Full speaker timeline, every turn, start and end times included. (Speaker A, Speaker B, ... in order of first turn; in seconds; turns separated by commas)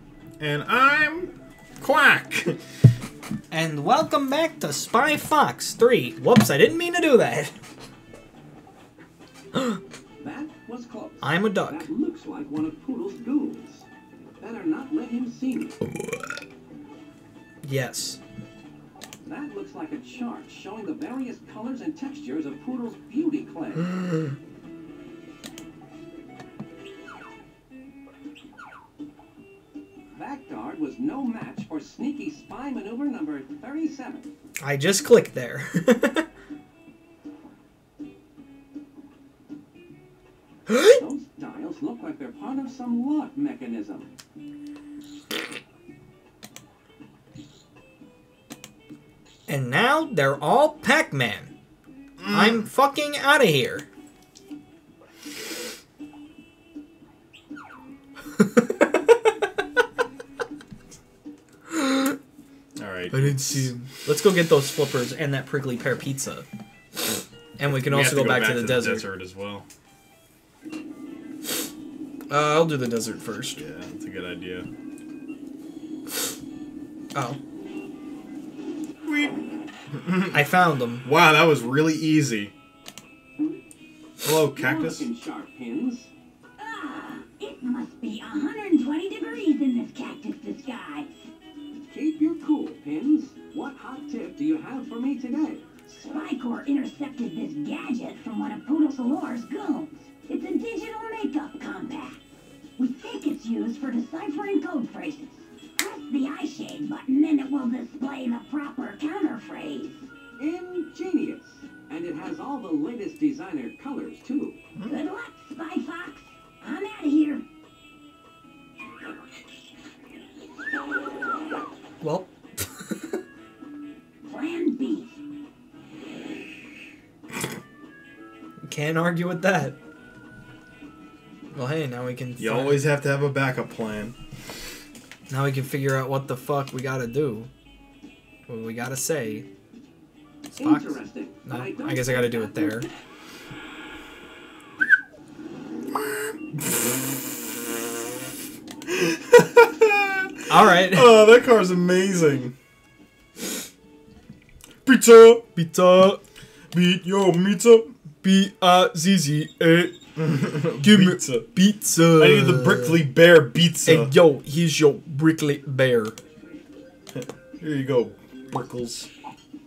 Speaker A: 0.4-2.6, Speaker B: 3.5-7.5, Speaker C: 10.2-13.9, Speaker B: 11.2-11.9, Speaker C: 14.4-15.8, Speaker B: 17.6-18.2, Speaker C: 19.2-23.9, Speaker C: 30.1-34.3, Speaker B: 34.6-36.2, Speaker B: 40.7-41.0, Speaker C: 41.0-44.1, Speaker B: 49.5-51.5, Speaker A: 52.2-52.7, Speaker B: 52.3-53.9, Speaker B: 58.3-59.1, Speaker B: 61.7-62.1, Speaker A: 62.8-63.7, Speaker B: 63.1-66.5, Speaker B: 67.6-69.0, Speaker A: 67.7-69.7, Speaker B: 72.3-73.6, Speaker A: 73.6-74.7, Speaker A: 79.0-79.4, Speaker A: 79.9-80.5, Speaker B: 80.3-81.0, Speaker A: 81.0-82.5, Speaker A: 84.2-85.1, Speaker C: 84.5-86.1, Speaker D: 86.6-91.1, Speaker C: 91.9-95.7, Speaker D: 95.9-102.2, Speaker D: 102.8-110.1, Speaker C: 110.4-114.6, Speaker A: 114.8-115.0, Speaker D: 114.8-117.4, Speaker B: 122.0-123.1, Speaker D: 124.2-125.2, Speaker B: 128.6-129.8, Speaker B: 131.5-132.8, Speaker A: 132.4-134.1, Speaker B: 135.3-137.5, Speaker B: 138.5-139.4, Speaker B: 140.5-142.9, Speaker C: 140.6-142.9, Speaker A: 145.9-147.3, Speaker A: 148.9-152.5, Speaker B: 150.5-151.1, Speaker A: 154.8-155.4, Speaker B: 155.5-156.2, Speaker A: 156.7-157.9, Speaker B: 158.2-159.9, Speaker A: 160.2-161.5, Speaker B: 160.8-163.0, Speaker A: 162.2-164.1, Speaker B: 163.8-166.2, Speaker A: 167.1-169.1